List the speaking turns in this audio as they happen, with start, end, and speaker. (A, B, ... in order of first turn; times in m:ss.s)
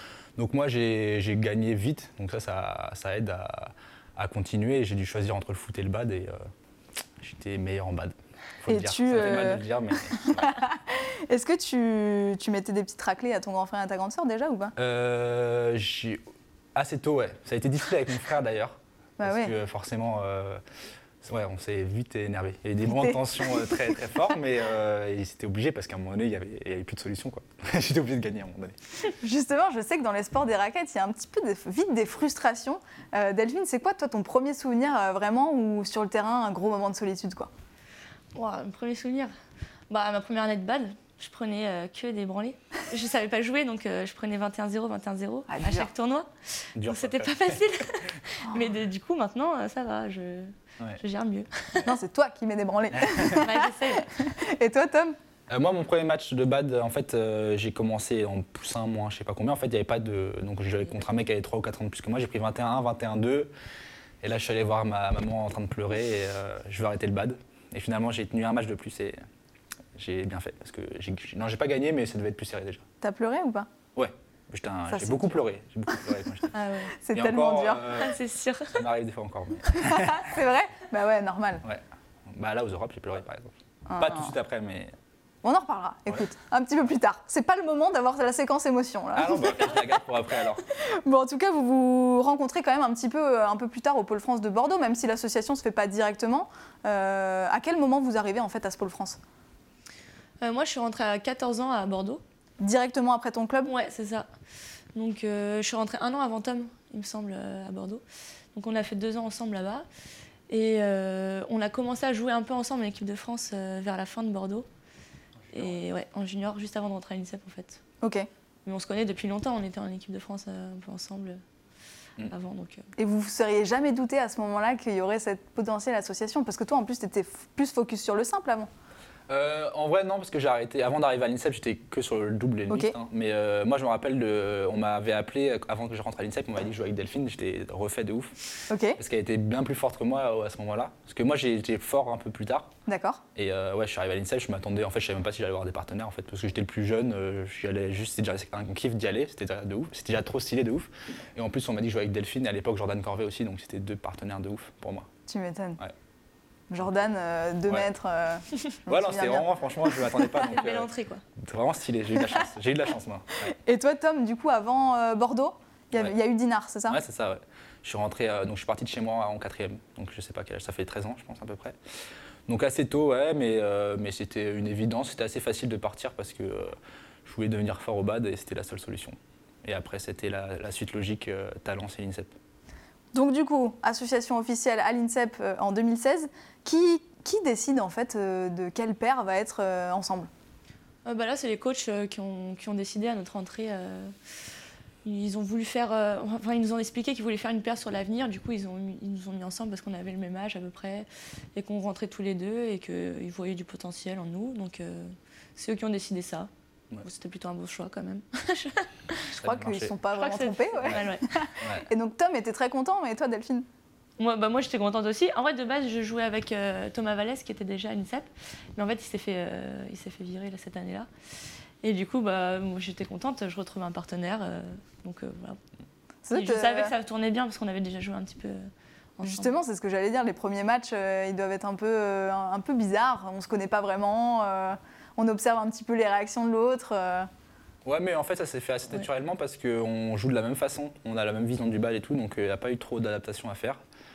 0:00.4-0:06.4 A
0:07.2-0:10.6 A
0:08.7-0:09.6 B
0:10.2-0:14.7 B
0:14.8-0:16.2 A
0:16.8-0:20.6 A
0:19.2-0:19.5 B
0:21.2-0:28.8 A
0:22.9-0:23.8 B
0:29.2-0:37.5 B
0:38.4-0:39.3 C
0:39.9-0:51.9 C
0:45.5-0:45.9 B
0:46.8-0:47.6 A
0:51.8-0:55.2 B
0:53.0-0:53.4 A
0:53.2-0:54.1 C
0:55.5-1:03.5 A
1:04.2-1:09.2 A
1:10.0-1:12.8 A
1:13.0-1:13.7 B
1:14.0-1:16.5 A
1:14.9-1:15.4 B
1:16.6-1:16.9 C
1:16.9-1:18.0 B
1:17.1-1:18.2 A
1:18.0-1:18.8 C
1:18.7-1:20.3 A
1:19.7-1:21.6 B
1:21.6-1:24.9 A
1:23.9-1:24.3 B
1:25.4-1:29.8 B
1:29.1-1:30.6 A
1:30.7-1:39.2 B
1:40.4-1:42.2 C
1:42.6-1:43.7 B
1:43.6-1:44.3 C
1:45.0-1:48.0 C
1:48.5-1:49.9 C
1:50.5-1:54.7 C
1:55.4-1:55.8 A
1:55.5-1:57.8 C
1:58.0-1:58.3 B
1:58.6-2:01.4 C
2:02.3-2:02.8 C
2:03.0-2:08.7 B
2:09.3-2:18.3 A
2:12.7-2:13.0 B
2:18.7-2:19.0 B
2:19.0-2:22.7 A
2:22.9-2:23.2 B
2:23.4-2:35.1 A
2:35.3-2:35.8 B
2:36.7-2:40.5 B
2:38.9-2:43.5 A
2:40.4-2:41.2 C
2:43.5-2:47.0 B
2:46.9-2:51.8 A
2:52.5-3:02.4 A
3:03.1-3:10.3 B
3:11.0-3:14.2 C
3:15.0-3:26.5 C
3:27.0-3:29.3 C
3:29.3-3:33.7 B
3:29.3-3:29.9 A
3:30.1-3:31.3 C
3:31.6-3:31.9 A
3:34.2-3:41.1 C
3:41.8-3:45.6 C
3:46.2-3:46.9 B
3:46.3-3:49.6 C
3:49.2-3:57.3 B
3:57.8-4:03.8 A